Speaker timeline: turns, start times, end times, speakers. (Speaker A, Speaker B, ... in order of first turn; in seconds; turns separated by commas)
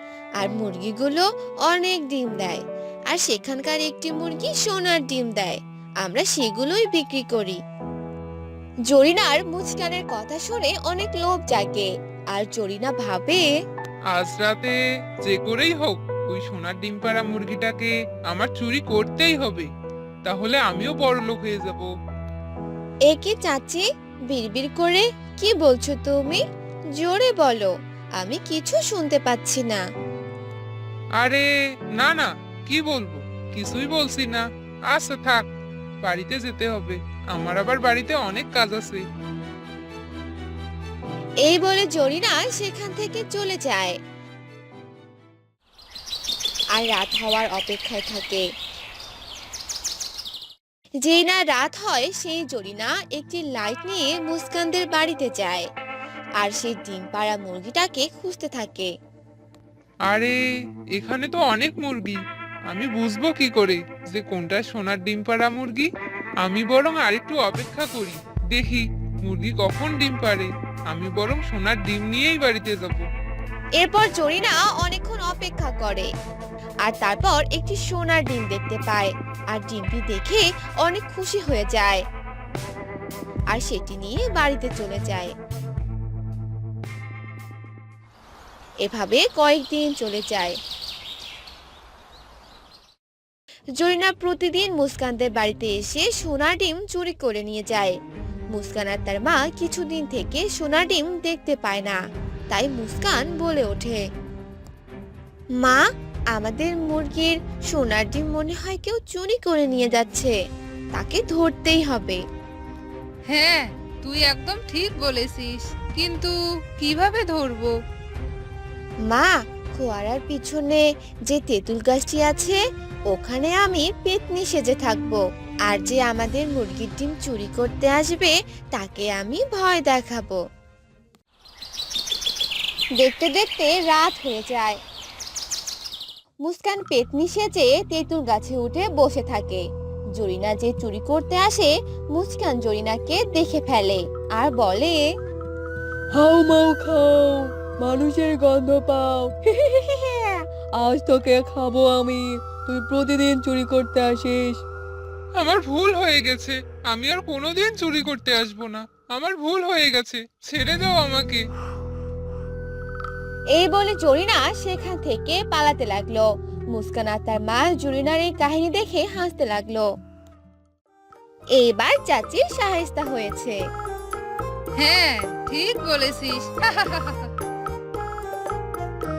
Speaker A: 0.4-7.6, Speaker A: 8.9-13.5, Speaker B: 14.1-14.7, Speaker B: 15.2-19.7, Speaker B: 20.2-21.9, Speaker A: 23.1-26.4, Speaker A: 27.0-29.8, Speaker B: 31.2-31.4, Speaker B: 31.9-35.4, Speaker B: 36.0-39.0, Speaker A: 41.4-44.0, Speaker A: 46.8-48.4, Speaker A: 51.0-55.6, Speaker A: 56.4-58.9, Speaker B: 60.1-60.3, Speaker B: 60.9-62.2, Speaker B: 62.7-65.9, Speaker B: 66.4-73.0, Speaker A: 73.8-76.1, Speaker A: 76.8-82.0, Speaker A: 83.5-85.3, Speaker A: 88.8-90.5, Speaker A: 93.8-97.9, Speaker A: 98.5-102.0, Speaker A: 102.5-104.0, Speaker A: 106.3-110.3, Speaker A: 110.9-112.2, Speaker C: 113.3-117.7, Speaker A: 119.1-130.4, Speaker A: 133.0-134.8, Speaker A: 136.4-139.6, Speaker A: 140.1-145.0, Speaker D: 146.1-154.6, Speaker B: 155.4-161.4, Speaker A: 163.6-169.9, Speaker A: 171.6-173.6, Speaker C: 174.8-177.3